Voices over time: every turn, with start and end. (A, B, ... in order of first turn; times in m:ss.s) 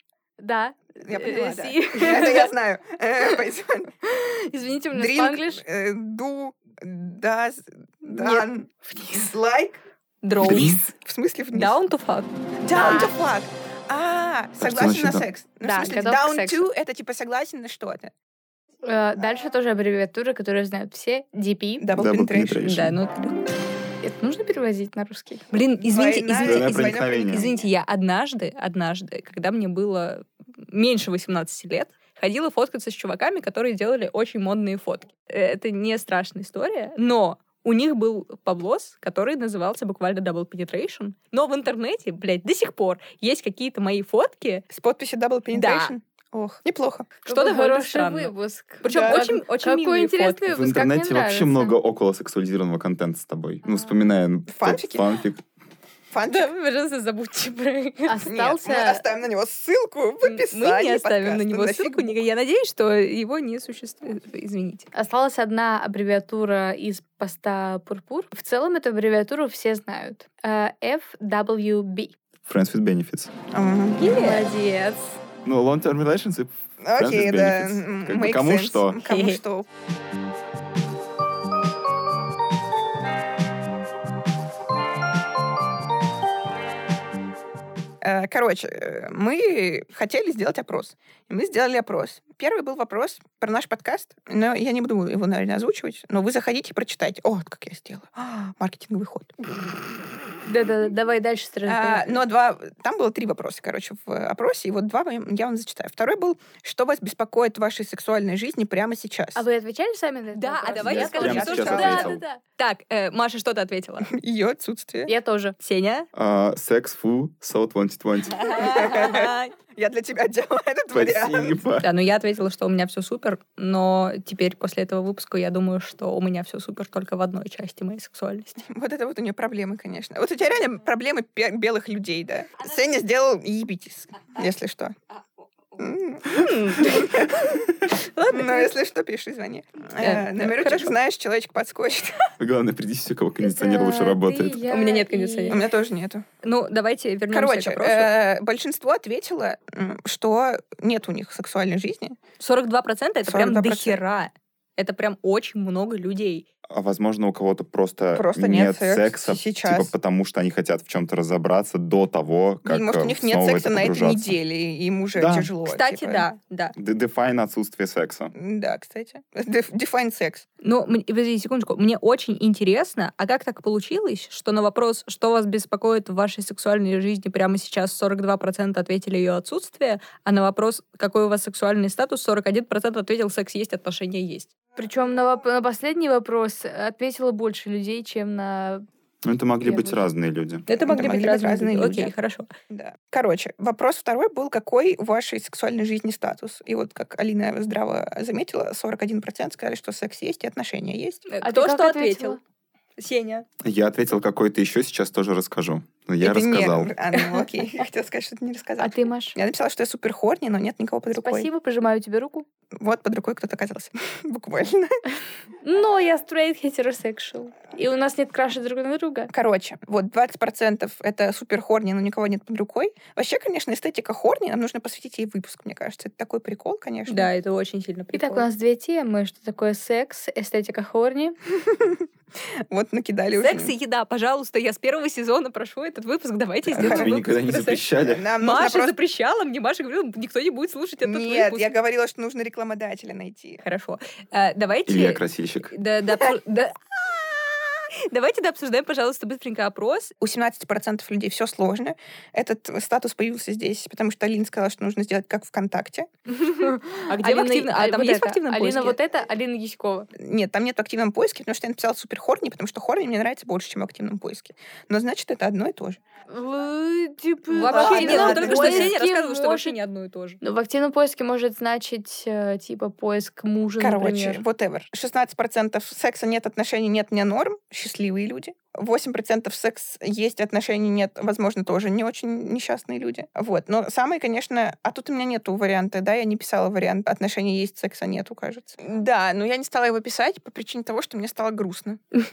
0:00.4-0:02.5 A
0:01.0-0:03.9 B
0:04.1-0:05.6 A
0:04.9-0:09.8 B
0:08.1-0:08.4 A
0:10.2-0:10.9 C
0:10.4-0:11.8 B
0:10.4-0:10.8 D
0:11.5-0:12.3 C
0:12.6-0:18.1 B
0:12.8-0:13.1 A
0:14.6-0:15.3 D
0:15.6-0:16.7 A
0:18.8-0:21.9 A
0:21.8-0:22.7 B
0:21.9-0:23.0 D
0:22.6-0:23.4 C
0:24.0-0:25.5 A
0:25.5-0:44.6 C
0:25.9-0:27.7 B
0:26.4-0:27.5 D
0:44.7-0:47.1 B
0:45.5-0:45.9 C
0:47.2-0:50.4 C
0:47.2-0:51.7 A
0:48.9-0:49.3 B
0:50.5-0:55.4 D
0:54.5-0:55.0 B
0:56.1-0:56.5 B
0:56.3-0:58.2 C
0:58.0-0:59.0 A
0:58.2-1:02.2 B
1:00.2-1:04.9 C
1:04.9-1:12.2 A
1:12.4-1:13.3 D
1:13.5-1:14.1 B
1:14.0-1:14.5 C
1:14.0-1:15.2 A
1:15.4-1:19.0 D
1:16.8-1:19.7 B
1:19.0-1:19.4 C
1:28.0-1:39.4 B
1:40.4-1:42.2 A
1:41.7-1:49.4 B
1:49.4-1:52.4 A
1:50.4-1:54.1 C
1:50.8-1:52.2 D
1:51.2-1:51.8 B
1:54.1-1:55.1 B
1:55.1-1:55.6 A
1:55.6-1:56.1 C
1:56.1-1:58.6 D
1:58.4-1:59.5 C
1:58.5-2:01.6 B
2:00.9-2:01.9 D
2:01.8-2:08.6 C
2:08.6-2:15.0 B
2:15.8-2:17.6 B
2:16.2-2:18.7 C
2:18.3-2:22.3 B
2:20.0-2:20.9 C
2:22.4-2:24.7 D
2:23.4-2:25.6 A
2:24.7-2:25.7 C
2:25.5-2:26.2 B
2:26.4-2:28.1 C
2:27.3-2:32.2 B
2:32.4-2:36.5 C
2:33.2-2:34.0 B
2:36.7-2:44.4 D
2:38.2-2:39.9 B
2:42.7-2:46.3 B
2:45.2-2:45.5 D
2:45.6-2:46.8 C
2:46.8-2:48.3 D
2:48.3-2:50.5 B
2:50.6-3:04.5 C
3:04.8-3:08.8 A
3:09.2-3:10.7 D
3:09.6-3:10.1 A
3:10.7-3:12.5 C
3:10.8-3:12.1 B
3:12.7-3:21.3 B
3:21.3-3:22.4 C
3:21.4-3:22.4 A
3:23.0-3:23.5 C
3:23.6-3:26.9 D
3:26.2-3:31.5 B
3:28.8-3:29.4 A
3:31.1-3:32.5 A
3:32.8-3:35.0 B
3:35.6-3:39.3 A
3:39.3-3:47.3 B
3:47.1-3:48.5 C
3:48.1-3:51.4 A
3:51.7-3:52.0 B
3:52.7-3:53.7 B
3:53.4-4:01.7 C
3:56.7-3:58.2 D
3:56.8-3:57.1 B
3:58.1-3:59.0 B
4:01.0-4:03.6 B
4:03.6-4:10.1 C
4:04.9-4:05.7 D
4:10.2-4:16.1 B
4:16.3-4:20.1 A
4:17.1-4:19.0 C
4:20.2-4:26.0 B
4:26.3-4:29.8 A
4:27.5-4:30.4 C
4:27.6-4:28.9 B
4:30.4-4:34.4 A
4:33.8-4:52.2 B